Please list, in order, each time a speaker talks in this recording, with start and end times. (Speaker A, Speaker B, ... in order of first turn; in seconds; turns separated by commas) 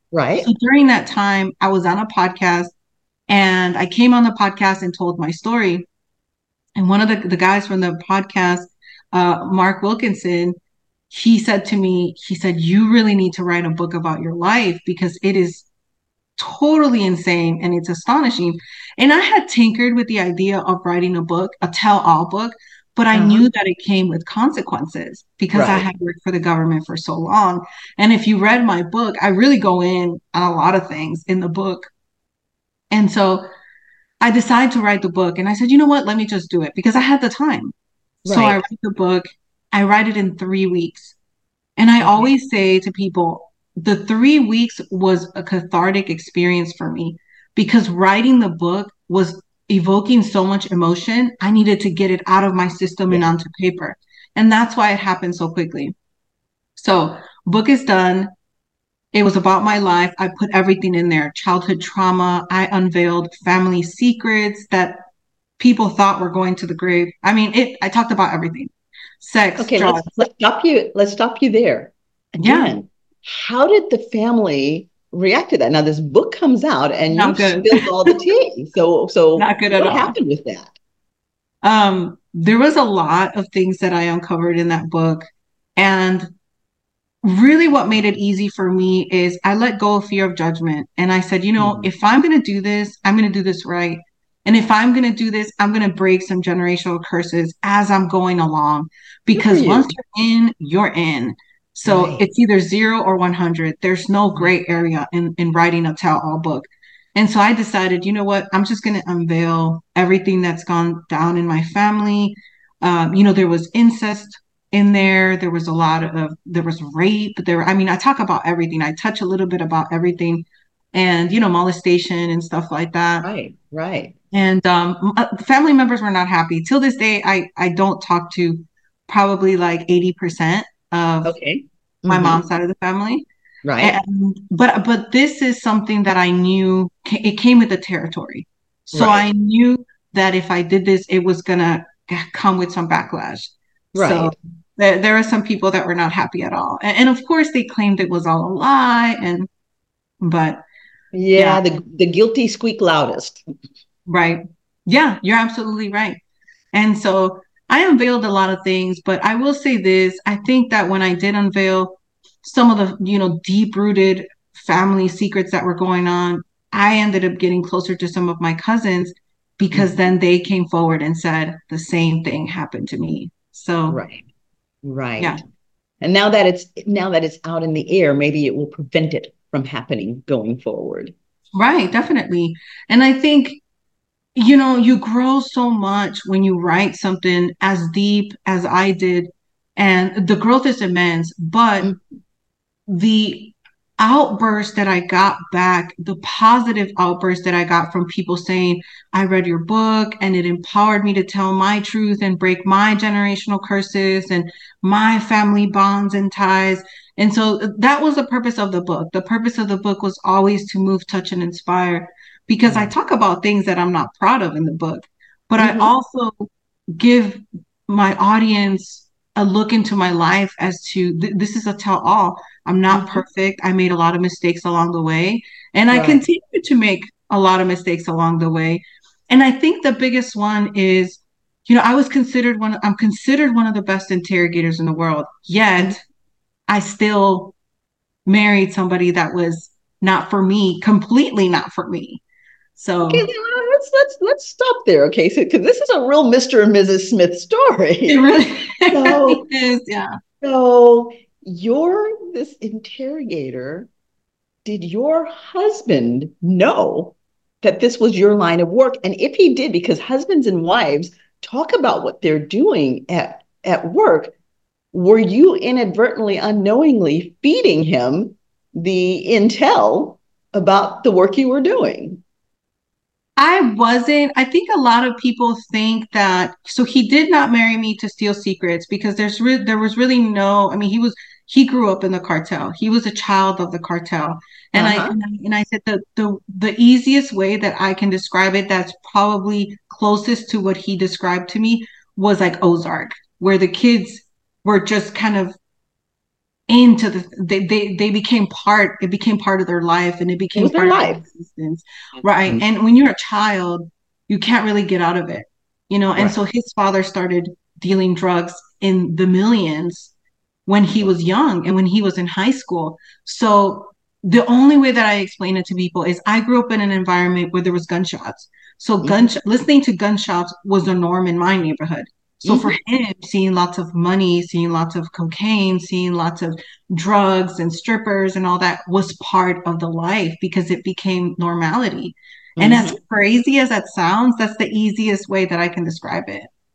Speaker A: 0.1-0.5, Speaker B: 0.4-2.7, Speaker B: 3.3-5.9, Speaker B: 6.8-10.6, Speaker B: 11.1-15.7, Speaker B: 16.4-31.9, Speaker A: 23.1-23.5, Speaker A: 25.5-25.9, Speaker B: 32.9-33.5, Speaker B: 34.2-37.7, Speaker A: 38.2-38.6, Speaker B: 38.3-41.2, Speaker B: 41.8-55.9, Speaker A: 42.0-42.3, Speaker B: 56.8-58.3, Speaker B: 59.1-65.0, Speaker B: 65.6-68.7, Speaker B: 69.2-70.1, Speaker A: 69.6-80.8, Speaker B: 72.4-72.8, Speaker B: 77.1-78.2, Speaker B: 79.4-80.2, Speaker B: 81.6-85.3, Speaker B: 85.8-86.3, Speaker B: 87.2-123.3, Speaker A: 91.6-91.9, Speaker A: 99.3-99.9, Speaker A: 101.8-102.2, Speaker A: 123.2-124.1, Speaker B: 124.3-131.4, Speaker A: 131.2-132.4, Speaker B: 132.1-133.3, Speaker A: 133.7-134.0, Speaker B: 133.8-149.5, Speaker A: 138.9-139.3, Speaker A: 143.9-144.3, Speaker B: 150.2-150.6, Speaker A: 151.1-153.4, Speaker B: 151.3-151.6, Speaker B: 154.1-156.2, Speaker B: 156.7-174.0, Speaker A: 173.9-174.3, Speaker A: 174.8-175.4, Speaker A: 176.0-181.1, Speaker B: 181.6-183.6, Speaker B: 184.4-191.9, Speaker B: 192.9-236.0, Speaker A: 212.7-212.9, Speaker A: 215.6-215.9, Speaker A: 222.9-223.2, Speaker A: 225.9-226.2, Speaker B: 236.7-237.5, Speaker B: 238.3-242.2, Speaker B: 242.8-243.3, Speaker A: 243.1-248.2, Speaker B: 248.1-250.1, Speaker A: 248.9-249.4, Speaker A: 250.4-253.9, Speaker A: 254.7-264.3, Speaker A: 264.9-272.2, Speaker B: 273.4-295.6, Speaker A: 284.8-285.2, Speaker B: 296.7-310.1, Speaker A: 300.6-301.2, Speaker B: 310.7-336.5, Speaker A: 322.5-322.8, Speaker A: 332.6-333.0